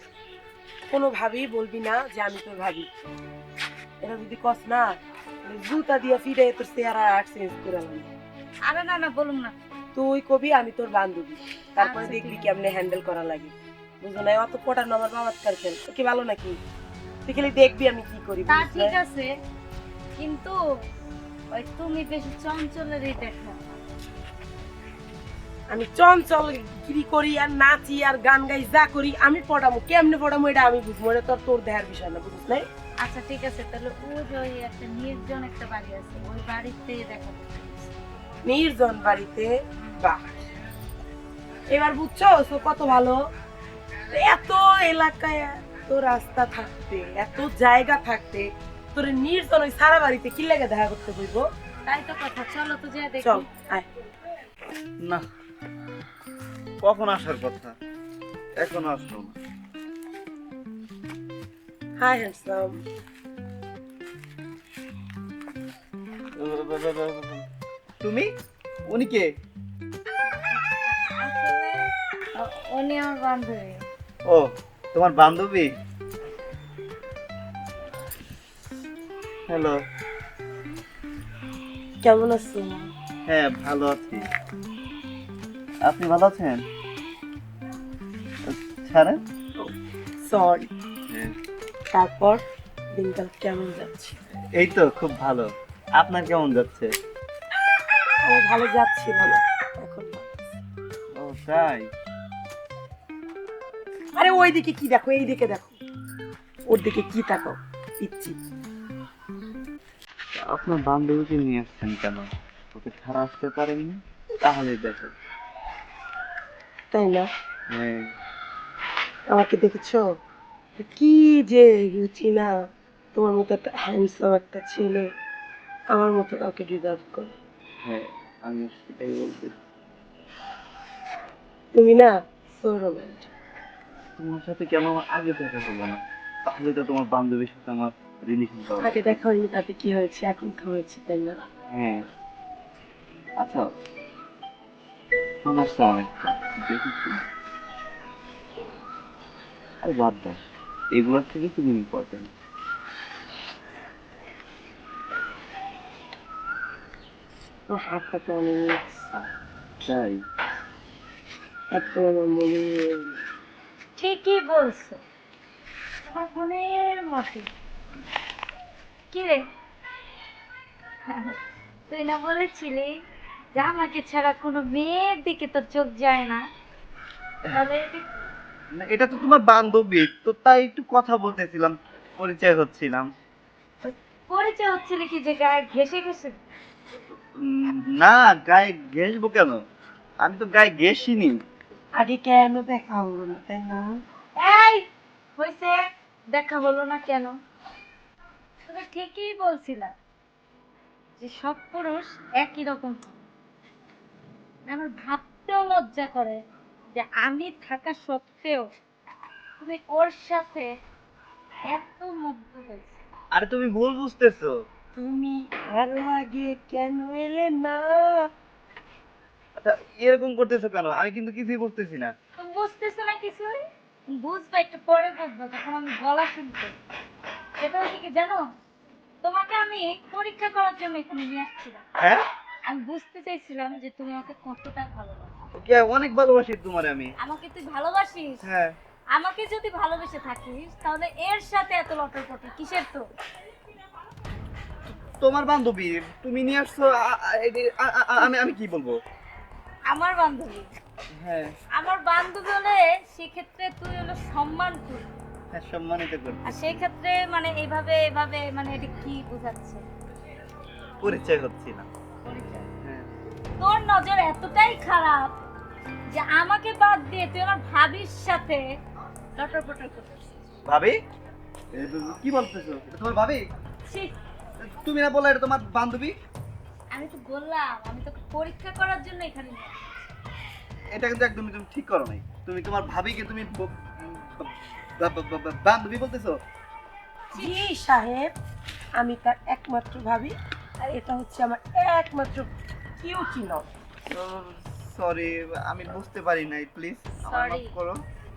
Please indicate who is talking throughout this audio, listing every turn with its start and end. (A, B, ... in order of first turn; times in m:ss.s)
0:00.9-0:02.9 A
0:04.0-0:04.9 A
0:05.4-0:08.1 A
0:08.7-0:09.5 B
0:09.9-0:16.6 A
0:11.8-0:12.5 B
0:17.2-0:19.0 A
0:18.5-0:19.3 B
0:20.2-0:20.5 B
0:21.5-0:23.6 B
0:25.7-0:32.7 A
0:33.0-0:37.9 B
0:38.4-0:40.4 A
0:41.7-0:43.2 A
0:44.1-0:51.4 A
0:51.8-0:53.4 B
0:53.2-0:53.9 A
0:56.8-0:57.7 C
0:58.6-0:59.4 C
1:02.0-1:02.8 A
1:06.4-1:07.4 C
1:08.0-1:08.3 C
1:08.9-1:09.3 C
1:10.2-1:11.8 B
1:12.3-1:13.8 B
1:14.2-1:15.8 C
1:19.5-1:19.8 C
1:22.0-1:22.9 A
1:23.3-1:24.3 C
1:25.8-1:26.6 C
1:28.4-1:29.2 C
1:30.2-1:30.7 A
1:31.9-1:32.4 A
1:33.0-1:34.2 A
1:34.6-1:36.9 C
1:38.2-1:40.5 A
1:41.2-1:41.8 C
1:44.1-1:45.8 A
1:46.7-1:48.4 A
1:50.4-1:55.1 C
1:56.9-1:57.3 A
1:57.7-1:58.0 C
1:59.3-2:00.0 A
2:00.8-2:02.5 A
2:03.1-2:05.1 A
2:05.9-2:07.3 A
2:07.8-2:09.5 C
2:11.7-2:13.3 A
2:14.2-2:19.1 C
2:18.8-2:21.4 A
2:21.7-2:22.0 C
2:25.4-2:27.2 C
2:29.8-2:30.4 C
2:30.9-2:32.3 C
2:37.7-2:38.8 A
2:39.8-2:40.2 C
2:41.7-2:43.1 A
2:44.0-2:45.0 B
2:46.1-2:47.5 B
2:49.1-2:49.4 B
2:51.1-2:51.3 B
2:51.9-2:52.9 B
2:53.5-2:56.4 B
2:57.5-2:58.0 B
2:58.8-3:03.1 C
3:03.8-3:06.4 B
3:07.4-3:09.6 C
3:10.2-3:11.4 C
3:12.0-3:14.0 A
3:14.4-3:14.8 B
3:15.4-3:17.3 B
3:18.7-3:19.9 B
3:21.2-3:23.1 B
3:24.7-3:26.4 B
3:26.9-3:28.7 B
3:29.6-3:30.7 B
3:31.7-3:33.0 B
3:33.3-3:34.5 C
3:35.0-3:38.3 A
3:39.6-3:42.1 C
3:42.4-3:43.6 B
3:44.1-3:46.7 B
3:47.6-3:48.4 B
3:49.2-3:51.8 B
3:52.7-3:55.3 B
3:55.6-3:57.1 C
3:57.2-3:58.4 B
3:58.4-3:58.8 C
3:59.1-4:03.0 B
4:05.2-4:09.0 C
4:09.9-4:10.7 B
4:11.2-4:11.5 C
4:11.8-4:15.1 B
4:15.5-4:16.8 C
4:16.4-4:19.8 B
4:21.0-4:21.9 C
4:22.2-4:22.7 B
4:23.6-4:25.4 B
4:26.1-4:28.6 B
4:29.4-4:30.2 B
4:30.7-4:31.0 C
4:31.7-4:33.4 C
4:33.9-4:34.1 B
4:34.6-4:36.1 C
4:36.9-4:40.1 B
4:40.9-4:46.4 C
4:47.3-4:48.3 A
4:49.0-4:53.7 A
4:54.1-4:58.0 C
4:57.2-4:57.7 B